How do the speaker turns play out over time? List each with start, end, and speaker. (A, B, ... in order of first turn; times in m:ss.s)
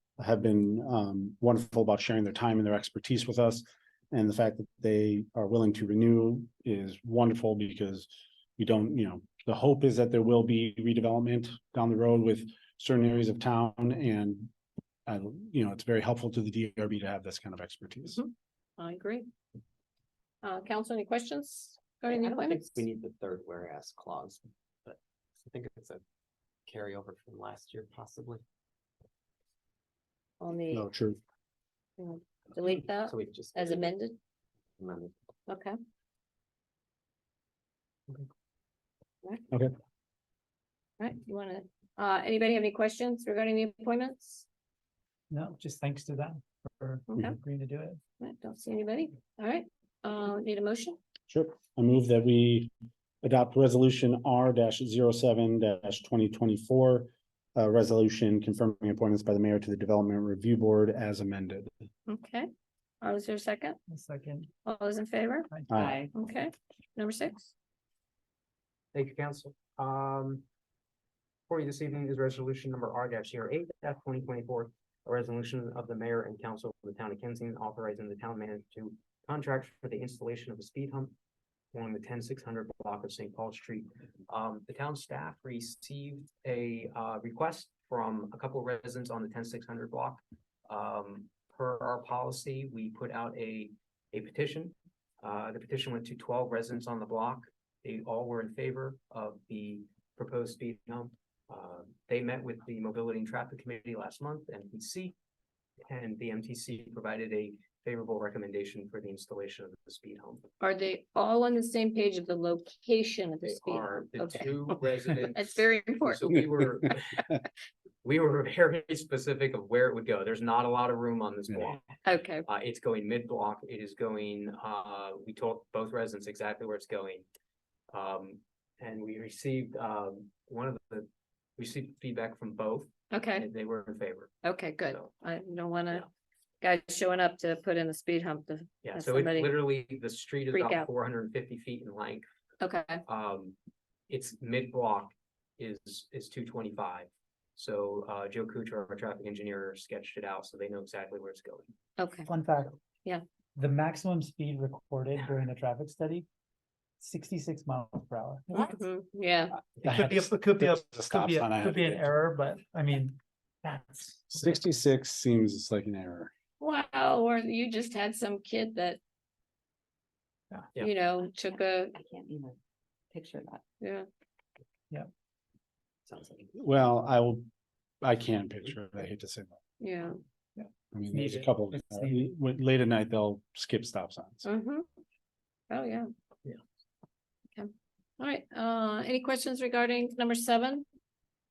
0:00.2-0:14.5 A
0:15.1-0:18.2 A
0:18.1-0:19.3 B
0:20.4-0:22.8 B
0:22.1-0:26.0 C
0:26.7-0:28.4 C
0:30.4-0:30.8 B
0:30.7-0:31.2 A
0:32.0-0:34.2 B
0:33.0-0:33.9 C
0:34.8-0:35.1 C
0:35.5-0:35.8 B
0:41.0-0:44.4 B
0:45.3-0:48.0 D
0:48.2-0:51.0 B
0:51.3-0:52.7 A
0:53.2-1:01.7 A
1:02.1-1:02.5 B
1:03.0-1:03.8 B
1:03.9-1:04.5 D
1:04.6-1:05.5 B
1:05.7-1:06.0 A
1:05.7-1:06.1 C
1:06.1-1:07.5 B
1:08.9-1:10.4 E
1:11.5-1:21.1 E
1:21.7-1:45.1 E
1:45.8-1:50.5 E
1:50.6-1:54.5 B
1:53.4-1:57.3 E
1:55.2-1:56.4 B
1:58.0-2:07.2 E
2:02.0-2:02.4 B
2:07.9-2:15.1 E
2:13.1-2:13.4 B
2:14.4-2:16.0 B
2:16.6-2:19.5 B
2:18.8-2:22.2 E
2:20.5-2:20.9 B
2:22.6-2:23.0 B
2:23.0-2:23.6 E
2:24.1-2:31.7 E
2:32.0-2:32.3 B
2:32.2-2:32.8 D
2:33.6-2:36.3 D
2:37.0-2:38.8 D
2:38.5-2:39.6 B
2:39.8-2:42.0 A
2:39.9-2:44.6 D
2:44.3-2:46.3 A
2:46.6-2:49.0 B
2:50.8-2:52.0 B
2:51.9-2:52.6 C
2:53.1-2:53.6 C
2:53.8-2:54.1 B
2:56.1-2:56.5 C
2:56.5-2:57.4 A
2:58.0-2:59.6 A
2:59.8-3:00.2 B
3:00.6-3:02.3 D
3:00.9-3:04.4 A
3:04.4-3:04.8 B
3:05.7-3:06.1 B
3:07.6-3:10.8 B